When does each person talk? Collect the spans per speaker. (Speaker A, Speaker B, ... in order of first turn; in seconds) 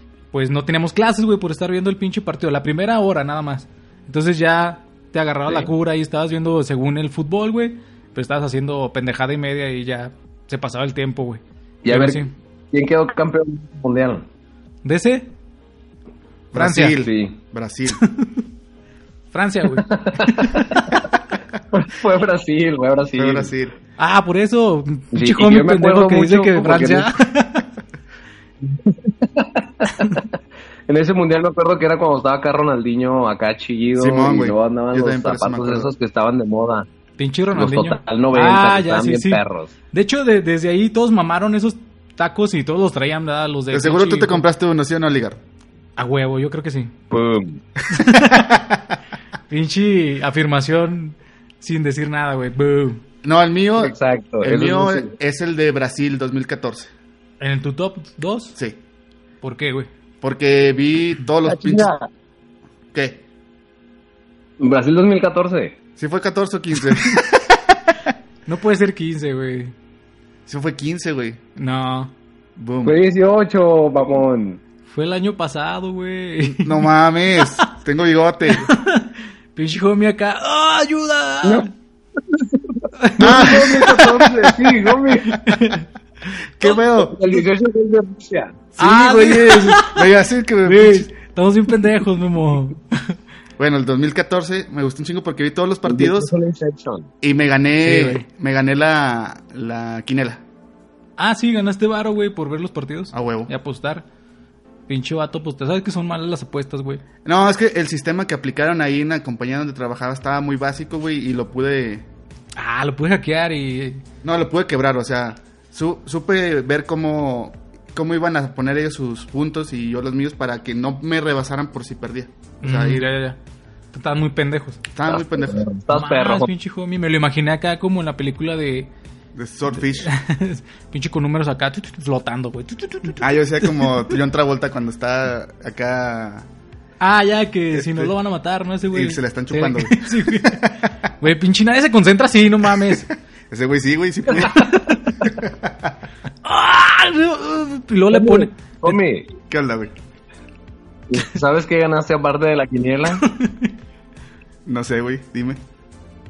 Speaker A: 0.3-12.3, 14.8-15.3, 16.5-17.0, 17.9-18.4, 19.3-21.0, 24.0-27.6, 37.2-44.4, 46.0-46.9, 47.9-48.6, 49.5-53.0, 57.4-58.5, 59.4-59.9, 68.5-69.7, 71.6-72.1, 74.8-76.9, 78.5-81.7, 83.0-84.3, 85.2-85.9, 88.8-93.1, 97.8-98.2, 101.2-104.0, 104.9-107.0, 112.5-114.0, 122.6-123.4, 123.9-124.8, 125.9-128.9, 129.9-134.0, 137.0-143.1, 144.5-145.1, 146.4-148.9, 153.2-153.7
Speaker B: 11.8-14.2, 16.9-17.4, 19.8-21.1, 21.7-23.5, 25.1-27.1, 28.6-30.3, 30.9-36.9, 37.5-39.7, 47.1-47.6, 53.8-55.1, 61.4-62.1, 64.6-65.8, 72.8-74.6, 81.4-85.4, 86.6-88.6, 95.9-97.1, 125.0-126.5, 148.1-149.3, 151.1-153.2
Speaker C: 16.5-18.0, 23.2-23.7, 34.0-35.9, 43.7-45.4, 48.1-48.8, 53.2-56.9, 60.2-61.9, 62.9-63.2, 66.0-68.1, 70.5-71.4, 72.6-73.0, 76.4-78.7, 83.2-84.2, 86.6-87.5, 88.8-91.1, 93.6-96.3, 97.2-100.4, 103.1-103.5, 107.2-112.0, 114.2-123.1, 124.9-125.7, 129.3-130.1, 133.2-136.5, 137.7-138.1, 138.9-140.7, 143.5-144.7, 145.2-145.9, 149.5-149.9, 154.7-155.6